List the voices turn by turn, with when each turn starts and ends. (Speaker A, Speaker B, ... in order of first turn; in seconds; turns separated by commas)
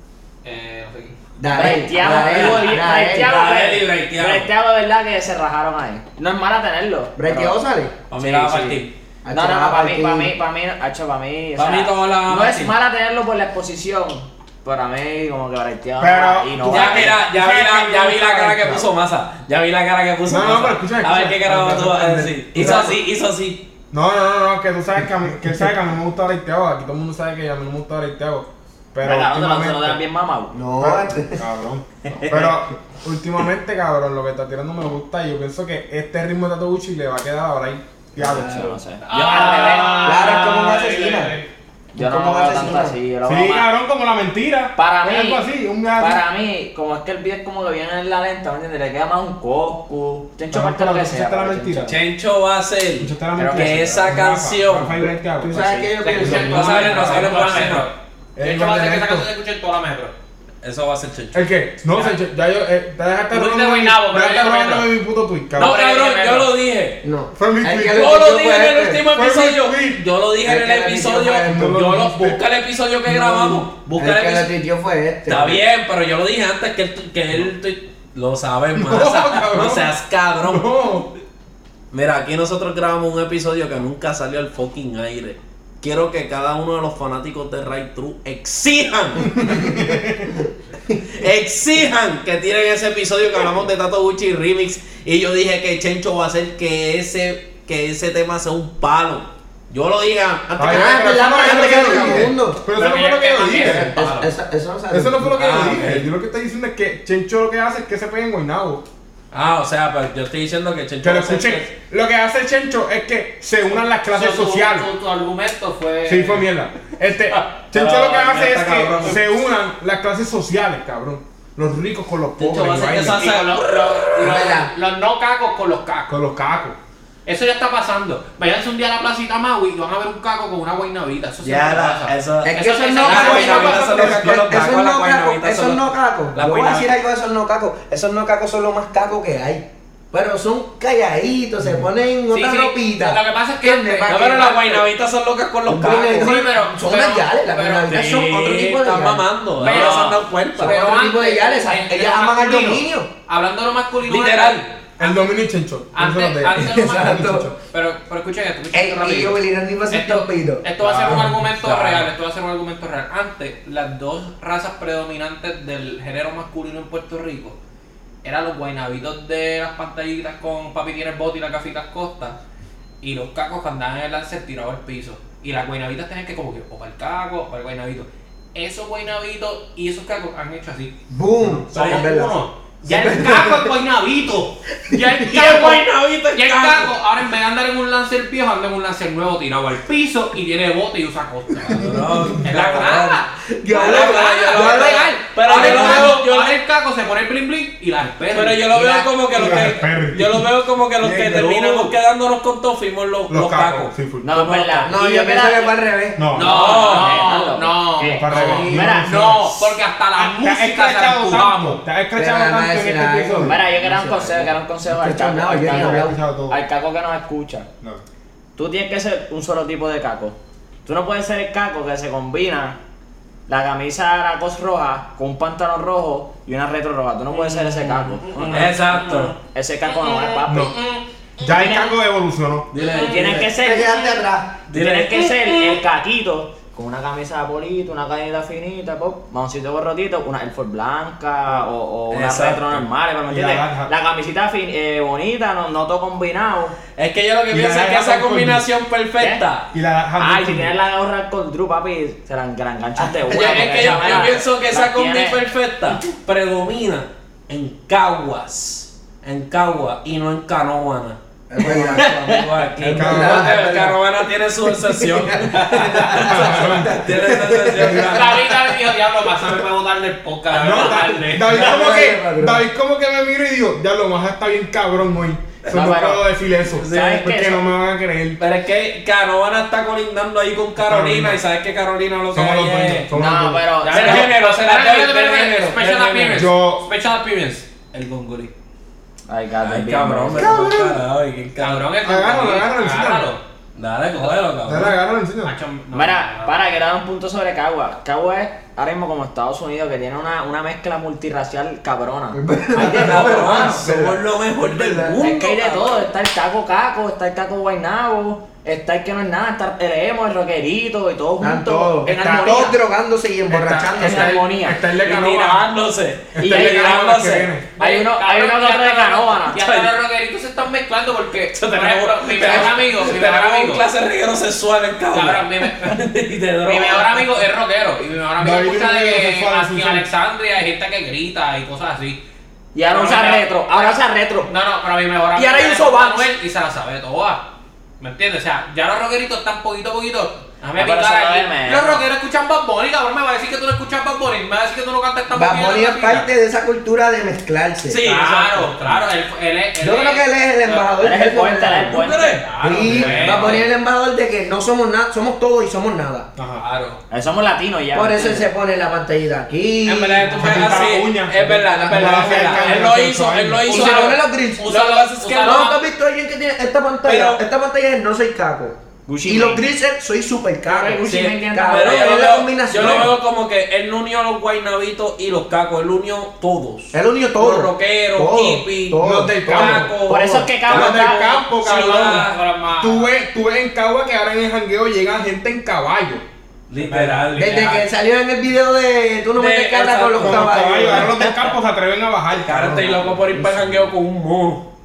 Speaker A: 0.4-2.9, Speaker B: 1.4-3.3, Speaker C: 1.5-7.6, Speaker D: 2.3-4.5, Speaker B: 7.2-7.9, Speaker D: 8.1-8.9, Speaker C: 8.1-17.1, Speaker B: 9.2-10.3, Speaker D: 11.6-12.7, Speaker E: 16.0-18.9, Speaker D: 16.7-23.6, Speaker E: 20.3-22.9, Speaker B: 22.6-22.9, Speaker E: 23.9-30.0, Speaker C: 29.0-30.6, Speaker B: 30.5-31.4, Speaker E: 30.8-38.7, Speaker C: 32.1-32.5, Speaker C: 38.2-40.4, Speaker B: 38.2-38.8, Speaker A: 39.0-41.5, Speaker B: 39.9-41.4, Speaker C: 41.9-43.7, Speaker B: 42.0-43.0, Speaker E: 43.2-46.2, Speaker C: 44.8-52.0, Speaker E: 50.5-52.0, Speaker D: 51.9-55.1, Speaker E: 53.0-55.6, Speaker C: 53.4-53.9, Speaker B: 55.4-57.7, Speaker C: 55.5-55.9, Speaker A: 56.0-60.1, Speaker D: 56.1-57.9, Speaker E: 56.1-57.3, Speaker E: 58.4-59.2, Speaker D: 60.6-61.5, Speaker E: 61.3-65.8, Speaker A: 61.9-62.2, Speaker A: 63.3-64.9, Speaker A: 65.6-66.5, Speaker D: 65.6-67.0, Speaker B: 67.0-69.0, Speaker E: 67.3-68.1, Speaker D: 67.9-74.5, Speaker E: 69.0-70.0, Speaker B: 70.4-71.7, Speaker E: 71.4-72.4, Speaker B: 73.1-75.6, Speaker D: 75.2-80.7, Speaker E: 78.7-81.1, Speaker D: 81.9-89.8, Speaker E: 89.4-90.3, Speaker D: 91.0-102.2, Speaker B: 100.5-102.7, Speaker E: 100.6-103.9, Speaker A: 102.7-104.3, Speaker B: 103.6-106.0, Speaker E: 104.9-108.8, Speaker D: 105.3-106.1, Speaker D: 109.3-111.7, Speaker E: 111.0-114.9, Speaker A: 114.1-116.5, Speaker E: 116.0-123.3, Speaker D: 117.7-119.2, Speaker D: 122.4-124.5, Speaker A: 122.9-126.1, Speaker B: 124.2-124.7, Speaker E: 126.1-126.8, Speaker A: 127.2-134.0, Speaker D: 131.4-137.0, Speaker B: 132.4-144.6, Speaker E: 133.4-134.7, Speaker A: 142.3-144.9, Speaker D: 144.1-146.4, Speaker B: 145.7-149.9, Speaker A: 145.8-148.0, Speaker D: 147.9-150.8, Speaker A: 149.6-155.1, Speaker C: 149.6-150.2, Speaker B: 150.6-153.1, Speaker D: 154.1-154.6, Speaker E: 155.0-157.6, Speaker A: 155.9-167.6, Speaker B: 156.6-157.5, Speaker B: 158.7-160.6, Speaker E: 160.8-161.4, Speaker D: 161.0-162.1, Speaker A: 168.2-172.4, Speaker A: 173.0-180.9, Speaker B: 181.1-183.7, Speaker A: 181.7-199.7, Speaker D: 181.7-182.1, Speaker B: 184.9-185.6, Speaker D: 185.2-186.9, Speaker D: 191.6-196.6, Speaker B: 193.5-196.2, Speaker D: 198.3-204.9, Speaker E: 199.3-200.5, Speaker E: 201.0-201.7, Speaker E: 203.3-204.3, Speaker C: 204.2-205.8, Speaker B: 204.9-206.3, Speaker E: 206.2-206.5, Speaker A: 206.3-211.8, Speaker D: 206.4-207.2, Speaker C: 206.4-209.4, Speaker E: 208.1-209.6, Speaker B: 208.4-208.9, Speaker E: 210.1-213.6, Speaker B: 212.1-216.2, Speaker C: 213.4-217.7, Speaker E: 215.6-216.6, Speaker C: 218.6-222.8, Speaker C: 223.5-228.8, Speaker A: 227.3-229.3, Speaker D: 228.5-229.3, Speaker C: 229.4-230.7, Speaker A: 229.9-231.9, Speaker E: 230.5-230.8, Speaker E: 231.4-232.7, Speaker D: 232.7-233.5, Speaker C: 232.9-234.2, Speaker B: 233.6-234.6, Speaker D: 234.7-235.8, Speaker C: 234.7-246.8, Speaker D: 242.1-242.9, Speaker E: 243.3-243.9, Speaker D: 246.9-249.7, Speaker E: 247.5-248.7, Speaker E: 249.7-250.7, Speaker C: 250.2-255.4, Speaker B: 253.0-254.1, Speaker D: 253.3-268.7, Speaker A: 253.4-254.1, Speaker B: 261.5-262.2, Speaker C: 261.9-262.4, Speaker B: 262.8-264.0, Speaker E: 262.9-263.8, Speaker B: 264.7-268.3, Speaker A: 265.6-266.4, Speaker E: 266.1-267.2, Speaker A: 268.0-271.7, Speaker D: 270.5-271.0, Speaker E: 270.5-278.4, Speaker B: 271.4-272.6, Speaker C: 275.7-276.2, Speaker D: 276.7-277.3, Speaker C: 276.8-277.6, Speaker D: 278.4-283.1, Speaker E: 280.8-281.4, Speaker E: 282.3-283.7, Speaker C: 283.1-284.3, Speaker A: 283.8-287.7, Speaker D: 283.9-286.5, Speaker E: 286.3-286.9, Speaker D: 287.9-288.5, Speaker C: 289.3-290.7, Speaker D: 289.6-291.9, Speaker E: 290.4-290.9, Speaker A: 291.6-293.4, Speaker E: 292.0-293.3, Speaker D: 293.8-295.0, Speaker E: 294.6-295.6, Speaker A: 295.4-296.7, Speaker C: 295.9-303.8, Speaker B: 302.3-305.2, Speaker D: 302.7-306.1, Speaker C: 305.2-312.8, Speaker B: 311.4-314.4, Speaker E: 313.5-315.6, Speaker C: 313.9-314.8, Speaker D: 315.0-317.5, Speaker E: 316.4-317.7, Speaker C: 316.4-317.1, Speaker A: 317.8-323.9, Speaker C: 317.8-319.6, Speaker D: 319.5-319.9, Speaker D: 321.4-327.4, Speaker A: 325.1-326.0, Speaker A: 326.6-332.2, Speaker E: 328.4-330.1, Speaker C: 332.7-334.5, Speaker A: 332.9-346.3, Speaker C: 335.4-336.3, Speaker C: 340.7-342.0, Speaker B: 345.3-348.1, Speaker D: 347.9-348.7, Speaker A: 348.0-351.0, Speaker B: 349.8-352.1, Speaker C: 351.0-352.5, Speaker D: 351.9-353.6, Speaker A: 352.2-353.7, Speaker B: 352.6-356.3, Speaker E: 352.8-353.6, Speaker E: 356.4-356.6, Speaker A: 356.6-357.0, Speaker C: 357.1-358.5, Speaker B: 357.9-360.9, Speaker D: 359.9-365.8, Speaker A: 360.1-360.9, Speaker E: 360.4-363.7, Speaker B: 361.5-362.9, Speaker A: 362.2-362.7, Speaker A: 363.7-365.7, Speaker B: 363.7-373.1, Speaker D: 367.0-367.4, Speaker C: 369.1-369.6, Speaker C: 370.7-372.2, Speaker D: 371.1-382.4, Speaker B: 376.9-380.0, Speaker E: 379.0-379.9, Speaker C: 380.1-381.4, Speaker E: 380.7-386.2, Speaker A: 381.7-383.1, Speaker D: 386.7-387.9, Speaker A: 386.8-387.4, Speaker B: 387.4-391.4, Speaker D: 389.4-391.2, Speaker E: 390.2-393.2, Speaker D: 392.4-394.6, Speaker B: 393.3-393.6